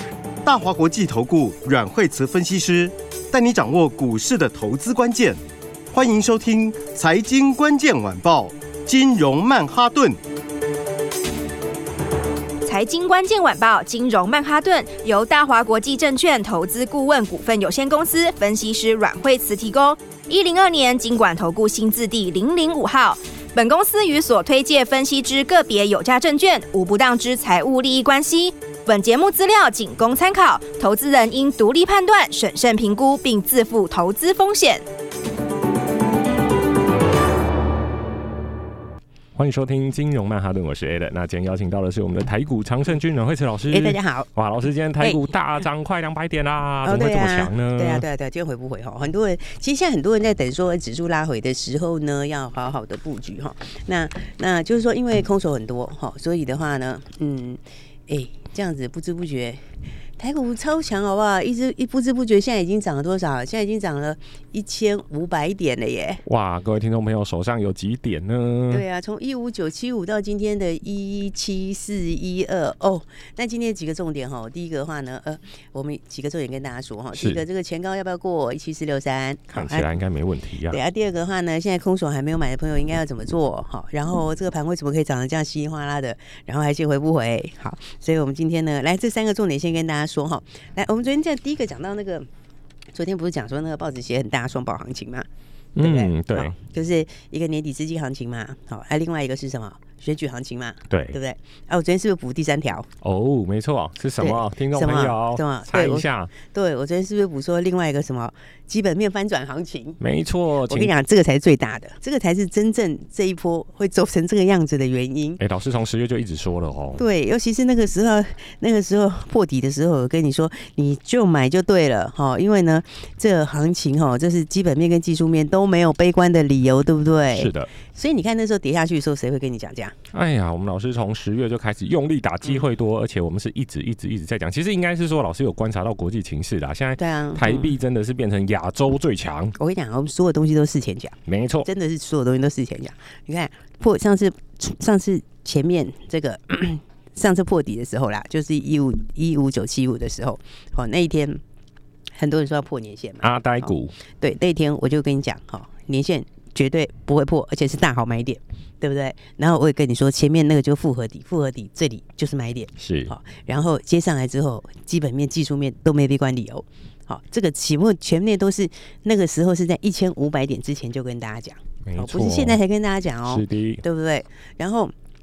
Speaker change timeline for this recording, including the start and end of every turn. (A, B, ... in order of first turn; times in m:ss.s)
0:00.4-0:05.4 A
0:05.9-0:10.2 A
0:12.6-0:34.8 B
0:39.3-0:48.0 C
0:43.7-0:44.3 D
0:46.8-0:59.6 D
1:00.2-1:06.2 D
1:06.2-1:08.8 C
1:08.7-1:19.9 D
1:17.1-1:17.4 C
1:19.5-1:20.8 C
1:20.7-1:32.3 D
1:32.9-1:35.2 D
1:35.8-1:36.6 C
1:35.8-1:42.9 D
1:40.9-1:41.2 C
1:43.0-1:46.3 C
1:44.2-1:50.0 D
1:50.0-1:50.9 C
1:50.7-1:55.4 D
1:55.4-1:57.0 C
1:57.0-2:09.9 D
2:07.3-2:07.7 C
2:10.1-2:19.5 C
2:17.0-2:17.7 D
2:19.6-2:31.4 D
2:21.3-2:21.7 C
2:32.2-2:54.9 D
2:33.2-2:33.9 C
2:42.8-2:43.1 C
2:51.8-2:52.6 C
2:53.2-2:53.8 C